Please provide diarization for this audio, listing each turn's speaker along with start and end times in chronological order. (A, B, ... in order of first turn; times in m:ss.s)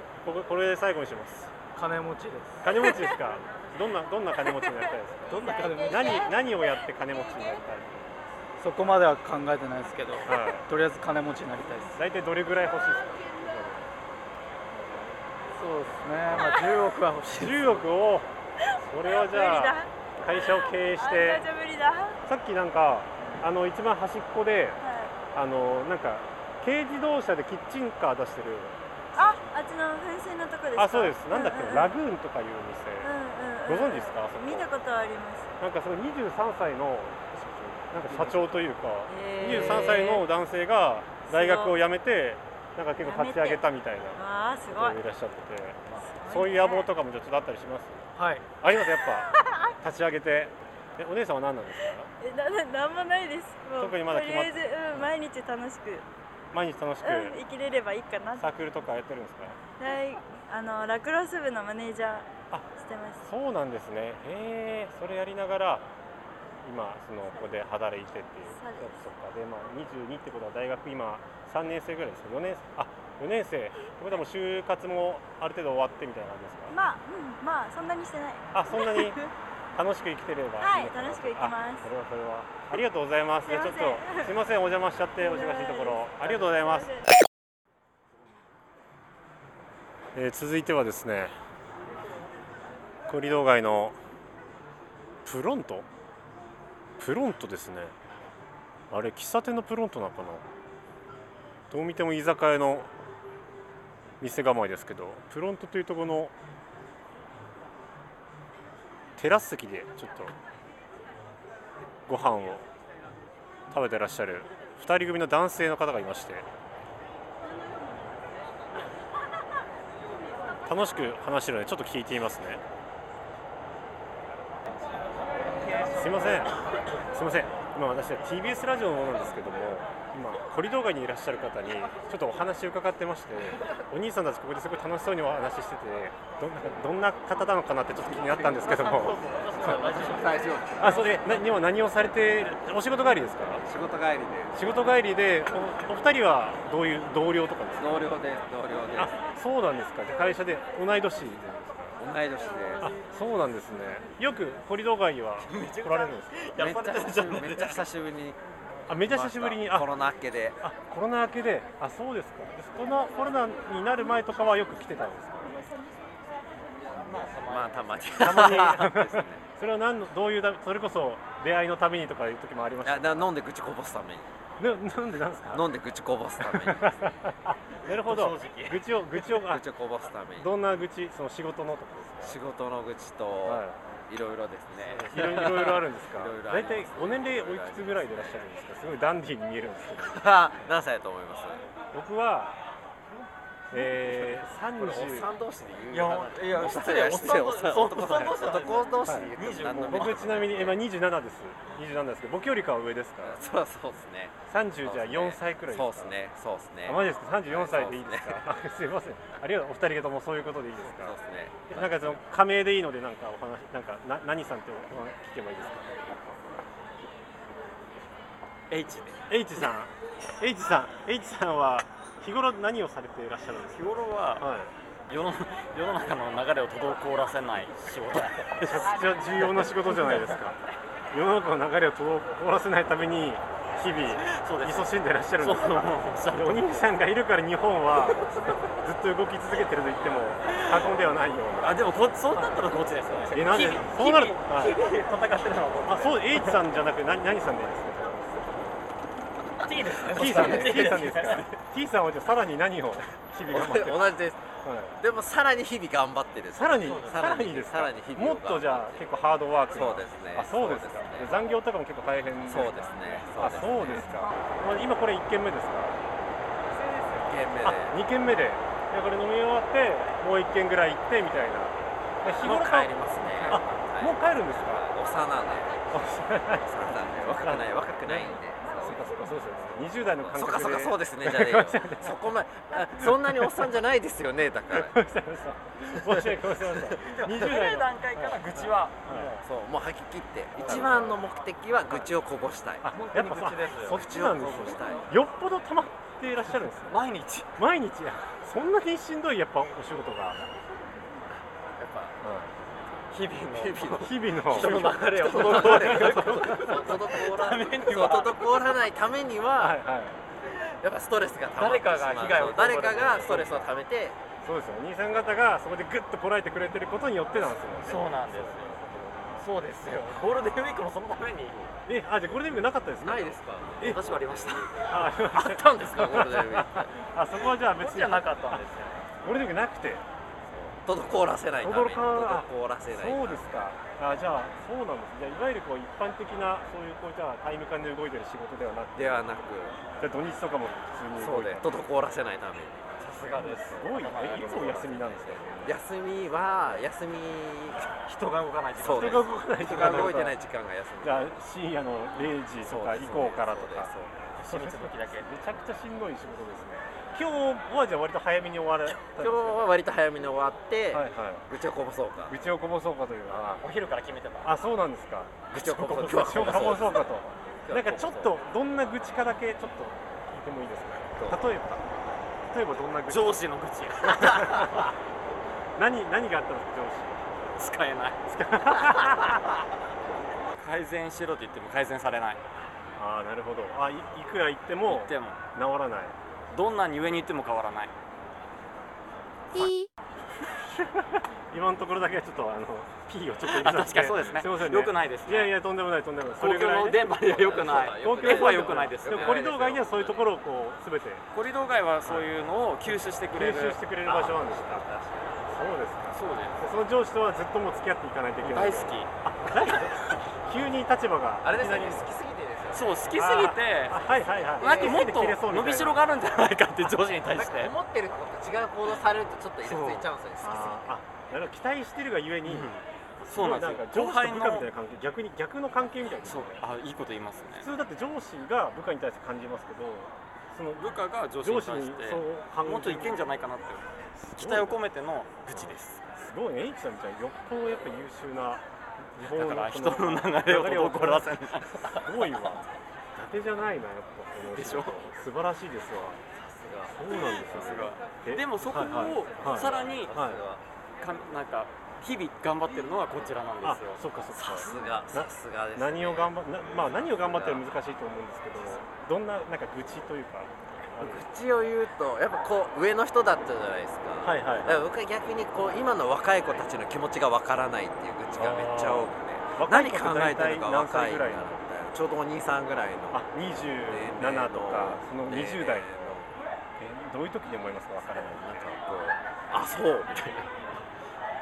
0:00.2-0:01.5 A
0:01.7-0:02.8 B
0:02.6-0:08.2 A
0:05.3-0:06.2 B
0:05.3-0:06.6 C
0:08.6-0:12.0 B
0:10.2-0:10.7 A
0:12.0-0:13.8 A
0:15.5-0:17.9 B
0:16.3-0:16.6 A
0:16.4-0:16.7 C
0:17.3-0:18.3 A
0:18.8-0:21.4 A
0:19.1-0:22.2 C
0:22.2-0:24.8 A
0:23.2-0:23.5 C
0:24.8-0:25.2 C
0:25.3-0:29.0 A
0:29.2-0:32.0 C
0:30.8-0:33.1 A
0:33.0-0:35.6 C
0:33.6-0:34.7 A
0:35.6-0:37.2 A
0:37.3-0:38.6 B
0:37.9-0:48.1 A
0:39.1-0:40.3 C
0:39.4-0:40.0 B
0:41.3-0:41.8 C
0:43.0-0:43.6 C
0:44.2-0:45.0 C
0:45.9-0:46.9 C
0:48.2-0:48.5 B
0:48.6-0:52.1 A
0:49.3-0:49.7 C
0:52.2-0:56.1 C
0:53.8-0:55.1 A
0:56.5-0:57.4 A
0:57.0-0:58.5 C
0:58.4-0:59.6 A
0:59.8-1:03.2 C
1:03.2-1:05.9 A
1:06.6-1:16.8 A
1:08.5-1:09.0 C
1:16.7-1:19.3 C
1:18.5-1:19.2 A
1:19.8-1:27.0 A
1:20.6-1:21.9 C
1:23.4-1:24.3 C
1:25.2-1:27.1 C
1:30.1-1:31.3 A
1:33.1-1:34.0 A
1:35.2-1:35.9 A
1:37.0-1:37.9 A
1:38.9-1:40.4 A
1:41.7-1:42.9 A
1:44.2-1:46.3 A
1:49.2-1:50.4 A
1:52.1-1:52.7 A
1:53.7-1:56.5 A
2:00.7-2:02.6 A
2:05.9-2:06.6 A
2:07.1-2:19.2 A
2:18.4-2:21.1 D
2:18.5-2:21.2 E
2:20.8-2:23.6 A
2:23.6-2:24.6 E
2:24.5-2:28.1 A
2:27.8-2:29.2 E
2:29.0-2:32.0 A
2:32.0-2:32.9 E
2:32.8-2:36.5 A
2:35.5-2:37.9 D
2:36.6-2:38.4 E
2:38.9-2:39.9 A
2:38.9-2:40.6 E
2:40.6-2:45.6 A
2:46.9-2:48.6 D
2:47.4-2:49.4 E
2:48.2-2:53.3 A
2:52.8-2:54.3 E
2:54.6-2:55.6 A
2:55.5-2:57.0 E
2:56.4-2:59.6 A
2:57.9-2:58.8 D
2:59.3-3:00.5 E
3:00.4-3:02.4 A
3:02.2-3:08.4 E
3:03.4-3:03.8 A
3:04.8-3:05.5 D
3:05.1-3:10.5 A
3:10.0-3:11.6 E
3:11.9-3:12.6 A
3:13.7-3:15.3 A
3:13.7-3:20.8 E
3:15.9-3:20.4 D
3:19.1-3:23.4 A
3:23.2-3:28.4 E
3:24.5-3:26.2 A
3:26.9-3:31.2 A
3:30.8-3:32.2 E
3:31.7-3:36.0 A
3:38.7-3:39.2 D
3:39.3-3:44.7 A
3:43.7-3:44.5 D
3:45.1-3:50.3 D
3:48.6-3:50.6 A
3:51.1-4:04.9 A
3:54.2-3:56.9 D
3:58.2-3:58.5 D
4:00.5-4:00.9 D
4:01.6-4:06.6 D
4:05.8-4:08.6 A
4:09.6-4:11.5 D
4:10.1-4:15.0 A
4:10.1-4:10.9 E
4:13.5-4:14.4 E
4:15.0-4:19.0 E
4:16.5-4:26.0 A
4:16.8-4:17.3 D
4:19.7-4:21.4 E
4:22.4-4:24.3 E
4:26.8-4:27.2 D
4:27.1-4:28.0 E
4:27.6-4:32.9 A
4:32.3-4:36.0 E
4:33.2-4:33.6 D
4:33.4-4:34.9 A
4:35.9-4:42.2 A
4:36.6-4:39.2 E
4:39.9-4:45.0 E
4:43.0-4:43.7 A
4:44.7-4:49.4 A
4:45.9-4:46.8 E
4:47.0-4:49.4 D
4:49.4-4:52.9 E
4:50.6-4:51.2 A
4:50.6-4:51.1 D
4:52.8-4:57.0 A
4:52.9-4:55.0 D
4:53.9-4:55.1 E
4:56.9-4:57.5 D
4:57.6-5:00.4 A
5:01.8-5:02.2 E
5:02.2-5:02.5 A
5:03.1-5:08.7 D
5:03.5-5:09.8 E
5:04.0-5:06.9 A
5:09.6-5:10.2 A
5:10.8-5:14.2 E
5:11.6-5:13.7 D
5:14.4-5:19.4 A
5:17.9-5:18.8 D
5:19.4-5:21.7 D
5:21.9-5:24.0 A
5:23.0-5:26.9 E
5:23.8-5:24.7 D
5:24.9-5:28.7 A
5:27.7-5:29.0 D
5:29.2-5:30.0 A
5:30.5-5:33.4 E
5:31.6-5:39.2 A
5:39.0-5:39.8 E
5:40.0-5:41.8 A
5:41.2-5:47.9 E
5:43.0-5:45.4 D
5:43.4-5:45.8 A
5:48.0-5:50.2 D
5:48.8-5:51.3 E
5:48.8-5:50.4 A
5:51.0-5:59.6 A
5:52.6-5:54.2 E
5:54.4-5:55.3 D
5:59.2-6:02.4 E
6:00.9-6:01.5 A
6:02.3-6:03.6 A
6:03.6-6:04.5 D
6:04.4-6:11.8 A
6:05.5-6:07.1 E
6:05.6-6:07.0 D
6:07.6-6:08.3 E
6:12.5-6:13.5 A
6:13.1-6:14.8 D
6:14.0-6:15.0 A
6:15.8-6:17.2 A
6:17.6-6:18.2 D
6:18.3-6:19.4 A
6:18.9-6:19.1 D
6:20.6-6:22.4 D
6:23.0-6:26.2 A
6:24.9-6:25.4 D
6:26.5-6:27.9 D
6:30.8-6:37.0 A
6:33.4-6:35.6 D
6:36.4-6:39.6 D
6:37.2-6:40.3 E
6:38.0-6:41.2 A
6:41.3-6:43.8 D
6:42.9-6:44.9 A
6:44.0-6:45.5 E
6:45.5-6:52.1 A
6:46.1-6:46.6 D
6:48.4-6:49.1 D
6:51.4-6:52.9 E
6:52.7-6:54.0 D
6:53.2-6:56.0 A
6:54.6-6:57.7 D
6:54.6-6:55.1 E
6:57.3-7:00.9 E
6:59.6-7:00.1 D
7:00.4-7:02.7 A
7:02.6-7:04.7 D
7:03.2-7:06.6 A
7:06.2-7:07.7 D
7:07.6-7:13.3 A
7:10.8-7:16.0 D
7:14.2-7:14.8 A
7:15.5-7:18.6 A
7:19.2-7:21.3 A
7:19.2-7:22.0 D
7:21.9-7:26.2 A
7:24.5-7:25.0 D
7:26.4-7:26.9 E
7:26.9-7:30.4 A
7:27.1-7:30.2 D
7:28.8-7:30.6 E
7:31.0-7:34.0 D
7:33.6-7:41.2 A
7:34.3-7:37.7 E
7:41.0-7:53.2 E
7:44.2-7:44.9 A
7:48.4-7:51.6 A
7:53.1-7:56.0 A
7:53.9-7:56.4 E
7:56.8-7:58.7 A
7:58.2-8:00.5 E